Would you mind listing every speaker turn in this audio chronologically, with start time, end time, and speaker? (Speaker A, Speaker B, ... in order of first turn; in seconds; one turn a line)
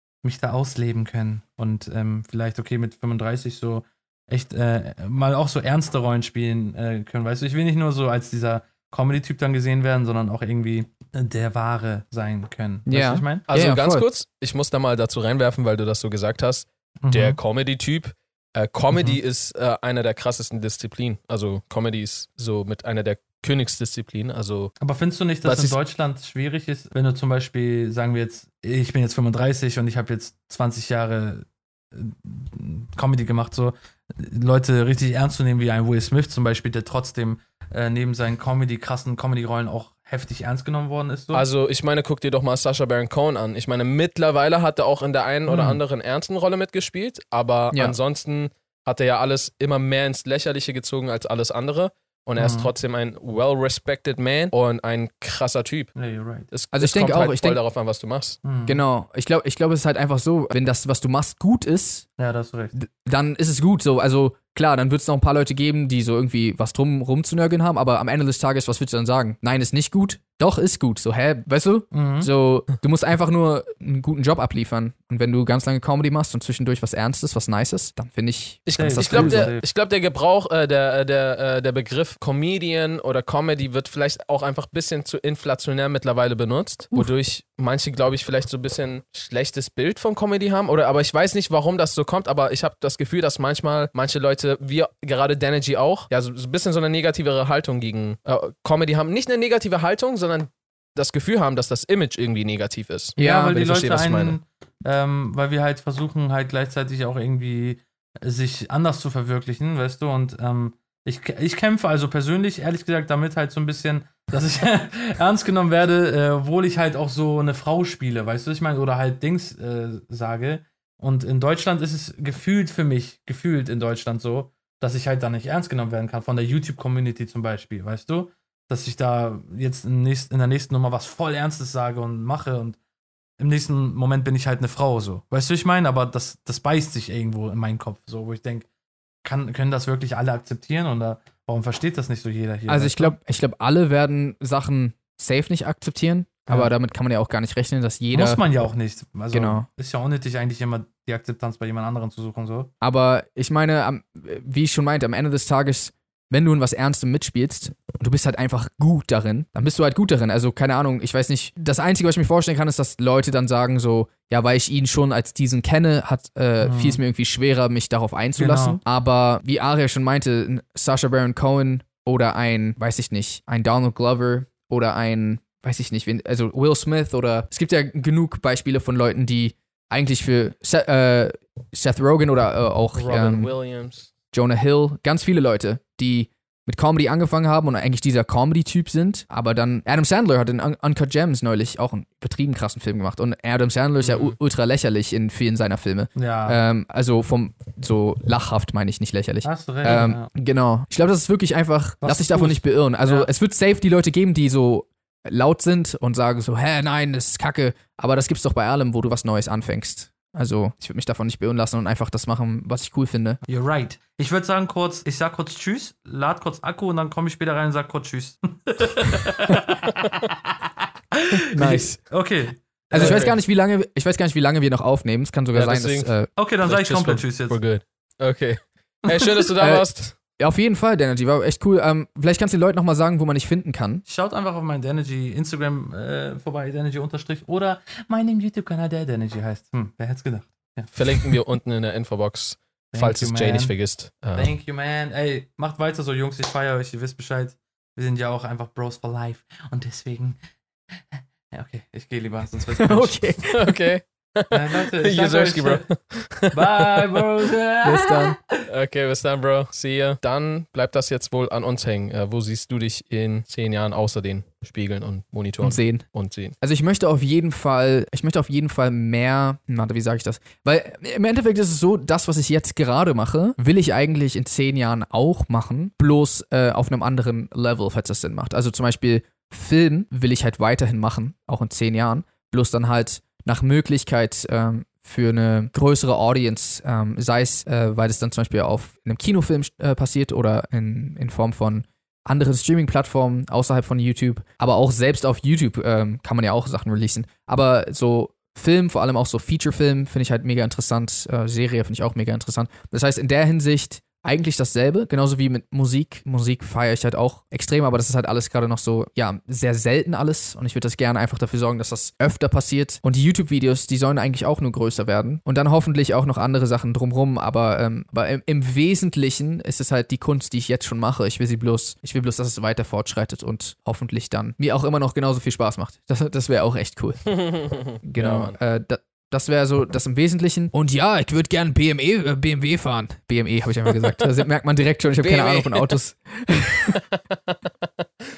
Speaker A: 0.2-13.4
Speaker B: 12.9-14.1
Speaker C: 13.5-24.7
Speaker A: 17.0-17.4
Speaker A: 18.9-19.2
Speaker A: 24.8-41.4
Speaker C: 25.4-25.8
Speaker C: 41.3-55.9
Speaker A: 45.5-45.8
Speaker A: 52.4-52.7
Speaker A: 56.0-56.5
Speaker C: 56.5-58.4
Speaker B: 56.7-57.6
Speaker A: 58.4-58.8
Speaker B: 58.6-62.1
Speaker A: 62.2-62.7
Speaker B: 62.8-79.5
Speaker A: 71.9-72.3
Speaker C: 78.7-104.4
Speaker A: 78.8-79.6
Speaker B: 103.2-103.6
Speaker A: 103.2-132.8
Speaker A: 133.4-138.7
Speaker A: 139.2-143.1
Speaker B: 142.7-148.4
Speaker A: 146.5-146.7
Speaker A: 148.1-152.7
Speaker B: 149.3-149.6
Speaker B: 152.8-183.5
Speaker A: 166.6-167.0
Speaker A: 168.4-168.8
Speaker C: 182.9-184.1
Speaker B: 184.3-213.4
Speaker C: 194.0-194.3
Speaker A: 196.1-196.6
Speaker A: 199.4-200.3
Speaker A: 202.0-203.3
Speaker A: 213.5-220.4
Speaker A: 221.1-223.3
Speaker B: 221.5-222.0
Speaker B: 222.9-226.3
Speaker C: 222.9-223.4
Speaker C: 225.5-226.1
Speaker A: 226.4-227.6
Speaker C: 226.6-230.2
Speaker A: 229.1-229.5
Speaker B: 229.6-234.0
Speaker A: 234.1-241.3
Speaker C: 240.9-244.5
Speaker A: 242.9-243.8
Speaker A: 244.3-250.4
Speaker A: 251.5-253.6
Speaker B: 252.8-253.6
Speaker C: 253.5-257.3
Speaker A: 254.5-255.9
Speaker A: 256.4-258.6
Speaker B: 257.8-258.4
Speaker C: 258.7-266.6
Speaker B: 265.6-266.1
Speaker B: 266.6-337.0
Speaker C: 327.4-328.6
Speaker C: 333.9-334.2
Speaker C: 335.2-335.9
Speaker C: 337.3-337.9